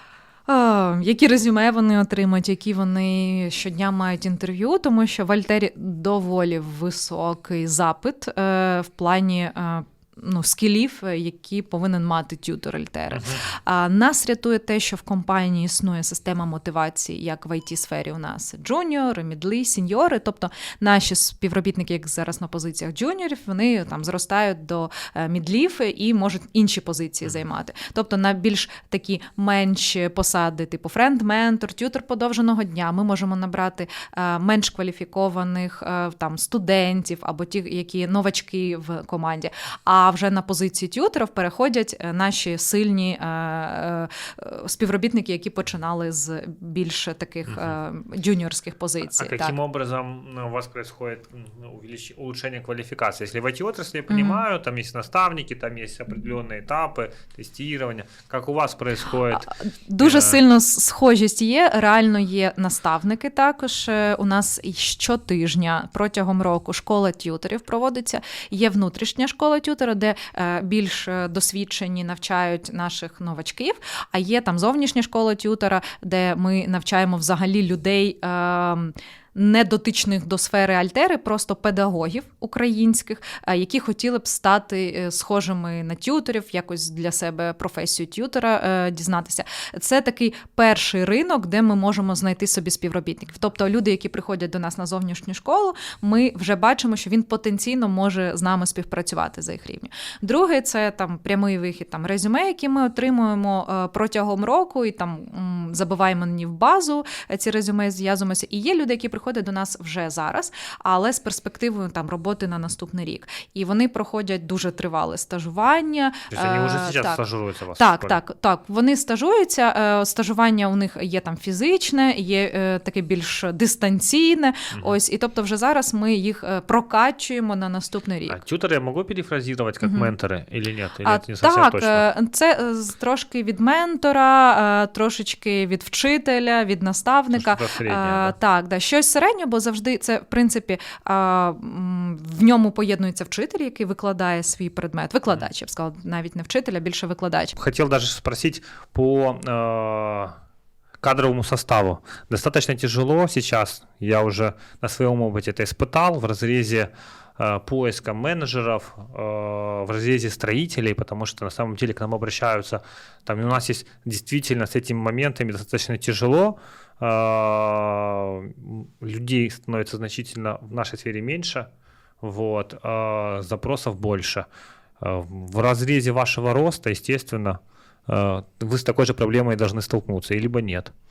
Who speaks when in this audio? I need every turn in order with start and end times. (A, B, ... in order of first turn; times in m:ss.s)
0:00.5-0:49.6 A
0:13.1-0:13.4 B
0:47.5-0:47.8 B
0:49.2-1:00.4 B
0:54.1-0:54.4 A
0:59.4-1:57.2 A
1:56.3-1:58.2 B
1:57.8-2:08.4 A
2:04.7-2:05.0 B
2:08.3-2:12.1 B
2:09.8-2:10.1 A
2:11.0-2:27.6 A
2:17.3-2:18.4 B
2:27.6-2:30.4 B
2:31.0-2:51.7 B
2:52.2-2:54.5 B
2:55.0-3:00.9 B